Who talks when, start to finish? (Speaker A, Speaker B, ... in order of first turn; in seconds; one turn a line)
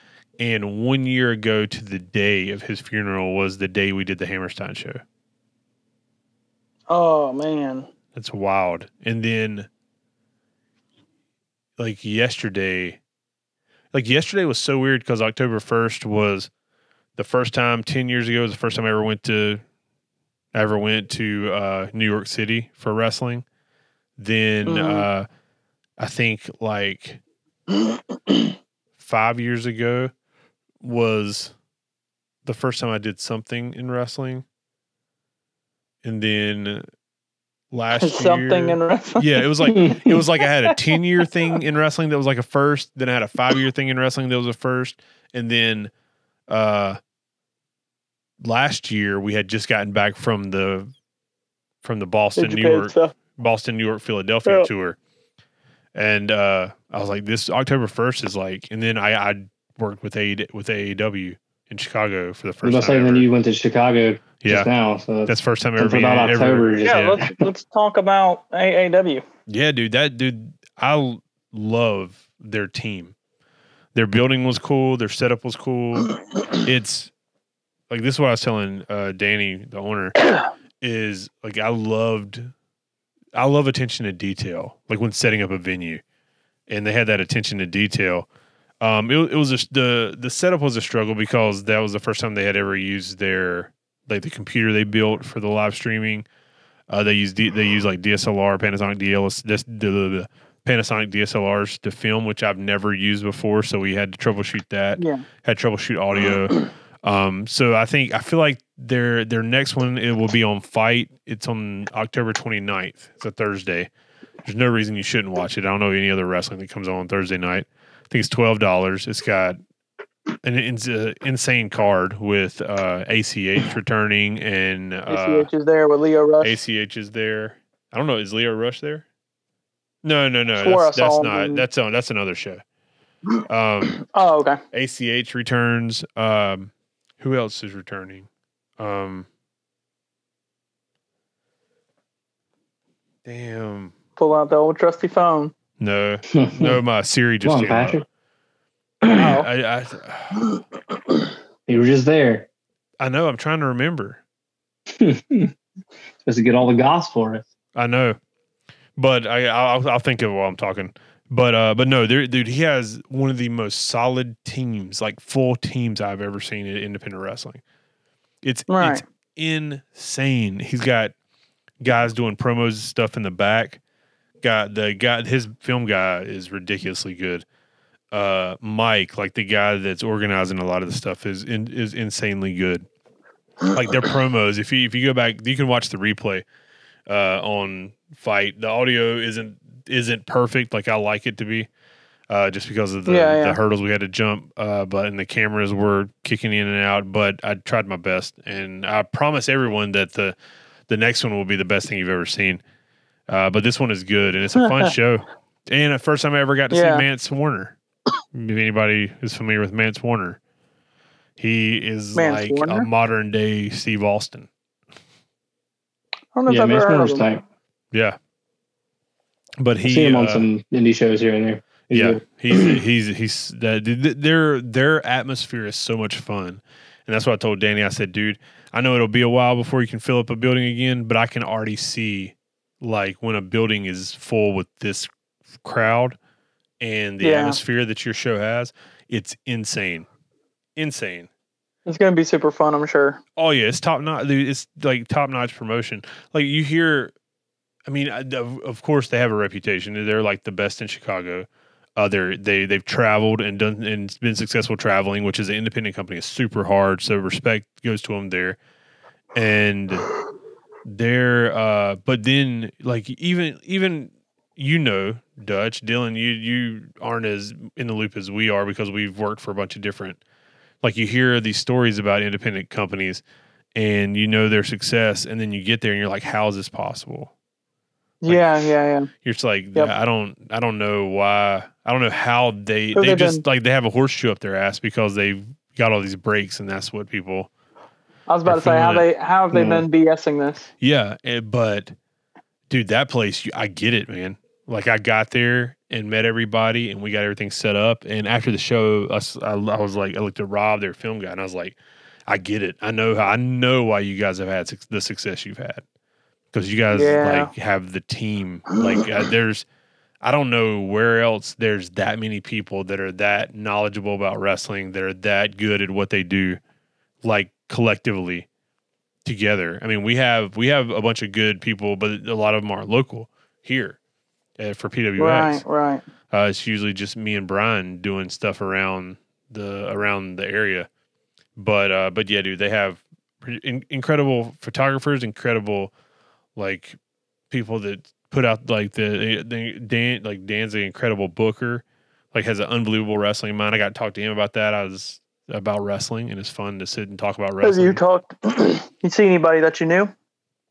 Speaker A: 0.4-5.0
Speaker B: 6.9-7.9
Speaker A: 8.2-9.7
Speaker A: 11.8-13.0
Speaker A: 13.9-16.5
Speaker A: 17.2-19.6
Speaker A: 20.5-23.4
Speaker A: 24.2-25.3
Speaker B: 24.7-25.1
Speaker A: 26.0-27.2
Speaker A: 29.0-30.1
Speaker A: 30.8-31.5
Speaker A: 32.5-34.5
Speaker A: 36.0-36.9
Speaker A: 37.7-45.9
Speaker B: 38.0-39.7
Speaker C: 39.7-40.2
Speaker A: 46.5-47.0
Speaker A: 48.4-50.9
Speaker A: 51.8-55.0
Speaker B: 52.4-53.1
Speaker A: 56.0-63.3
Speaker C: 62.6-67.4
Speaker A: 64.4-64.7
Speaker A: 65.3-67.2
Speaker B: 66.8-69.2
Speaker A: 69.5-73.2
Speaker A: 74.0-77.1
Speaker A: 77.9-82.5
Speaker A: 83.3-86.0
Speaker A: 86.7-88.3
Speaker A: 88.8-96.3
Speaker A: 96.9-113.9
Speaker B: 105.0-105.2
Speaker A: 114.4-119.6
Speaker A: 120.4-125.5
Speaker B: 125.1-126.6
Speaker A: 126.4-129.1
Speaker A: 130.0-132.6
Speaker B: 130.6-131.7
Speaker A: 133.4-134.1
Speaker B: 134.0-134.6
Speaker A: 134.7-138.3
Speaker A: 138.8-139.3
Speaker A: 143.2-143.9
Speaker B: 144.2-145.5
Speaker A: 145.8-148.0
Speaker C: 146.3-146.8
Speaker C: 147.4-148.0
Speaker A: 149.1-150.6
Speaker C: 151.7-152.5
Speaker A: 153.0-154.2
Speaker C: 154.9-155.5
Speaker C: 156.2-157.5
Speaker A: 157.8-158.2
Speaker A: 159.0-167.6
Speaker A: 168.4-171.1
Speaker B: 168.7-169.0
Speaker A: 171.8-173.8
Speaker A: 174.4-177.4
Speaker A: 178.1-182.9
Speaker A: 183.6-186.4
Speaker A: 187.1-191.7
Speaker A: 192.3-200.4
Speaker B: 193.1-193.6
Speaker A: 200.9-202.6
Speaker A: 203.3-207.8
Speaker B: 204.6-204.9
Speaker B: 206.7-207.1
Speaker A: 208.3-210.4
Speaker A: 211.4-214.5
Speaker B: 212.2-212.9
Speaker B: 216.3-217.3
Speaker C: 216.5-217.4
Speaker A: 217.9-218.2
Speaker A: 219.6-220.5
Speaker C: 219.8-222.8
Speaker A: 221.9-235.1
Speaker A: 235.6-236.2
Speaker A: 236.8-240.1
Speaker B: 237.2-237.6
Speaker A: 240.8-241.3
Speaker B: 241.9-243.2
Speaker A: 243.4-247.1
Speaker A: 247.9-258.6
Speaker A: 259.4-260.1
Speaker A: 260.9-270.2
Speaker A: 270.8-273.2
Speaker A: 273.8-277.3
Speaker B: 278.2-279.1
Speaker A: 278.3-287.5
Speaker B: 282.9-283.4
Speaker B: 288.3-290.7
Speaker A: 288.5-289.1
Speaker C: 289.5-289.9
Speaker A: 290.8-291.9
Speaker A: 292.7-301.8
Speaker A: 302.3-305.8
Speaker A: 306.5-309.6
Speaker B: 306.9-307.5
Speaker A: 310.2-316.6
Speaker A: 317.2-318.5
Speaker A: 319.2-324.0
Speaker A: 324.6-325.6
Speaker B: 325.2-326.0
Speaker A: 326.3-330.9
Speaker A: 331.6-335.9
Speaker A: 336.6-337.0
Speaker A: 337.5-348.0
Speaker B: 347.6-350.1